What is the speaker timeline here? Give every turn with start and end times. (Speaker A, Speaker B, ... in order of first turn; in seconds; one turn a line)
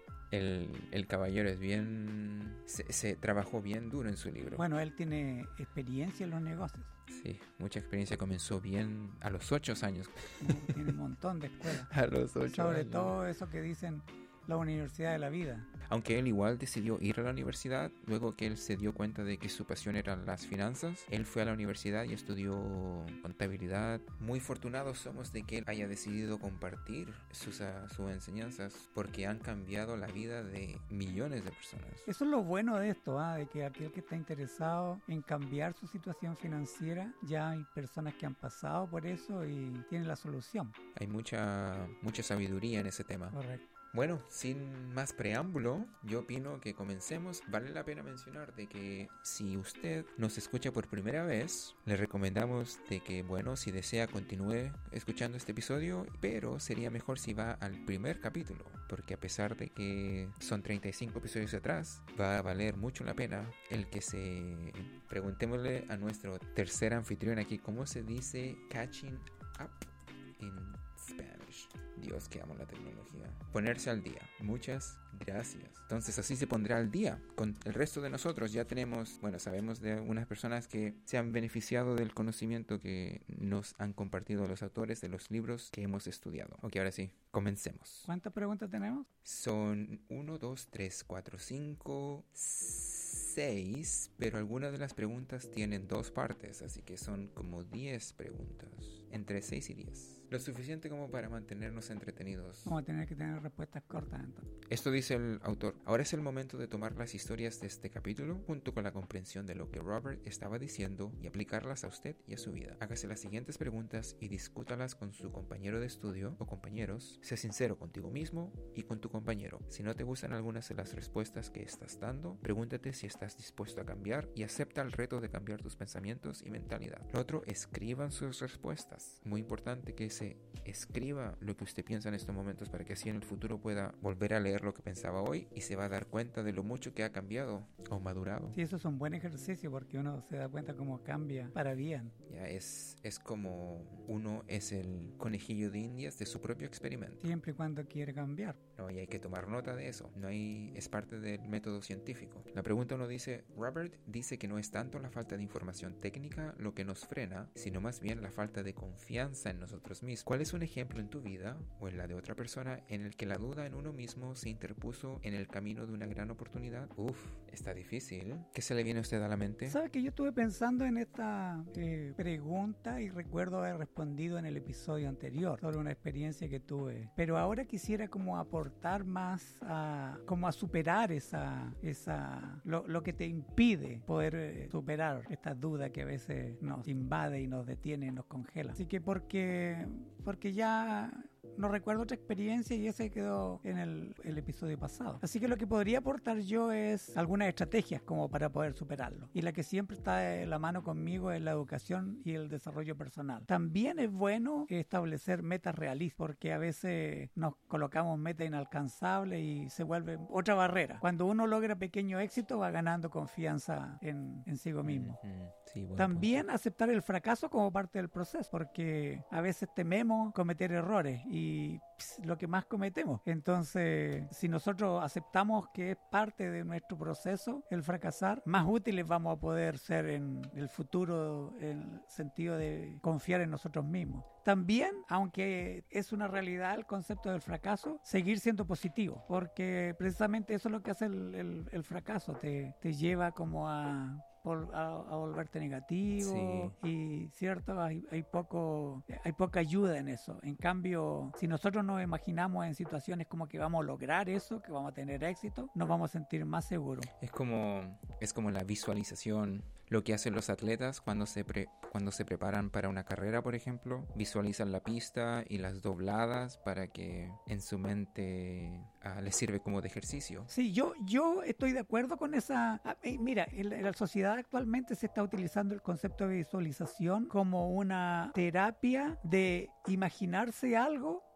Speaker A: 0.3-4.7
Speaker B: 4.5-6.9
Speaker A: 7.1-11.0
Speaker B: 10.4-11.9
Speaker A: 11.6-13.2
Speaker B: 12.5-15.7
Speaker A: 15.9-32.1
Speaker B: 32.1-40.8
Speaker A: 41.0-43.4
Speaker B: 43.3-43.7
Speaker A: 43.9-88.1
Speaker B: 88.1-89.1
Speaker A: 89.2-102.8
Speaker B: 102.7-104.5
Speaker A: 104.7-138.6
Speaker B: 138.5-142.1
Speaker A: 142.3-147.3
Speaker B: 147.2-148.6
Speaker A: 148.8-169.8
Speaker B: 169.7-215.2
Speaker A: 214.8-216.4
Speaker B: 216.0-257.1
Speaker A: 246.2-246.8
Speaker A: 257.2-270.5
Speaker B: 270.5-281.3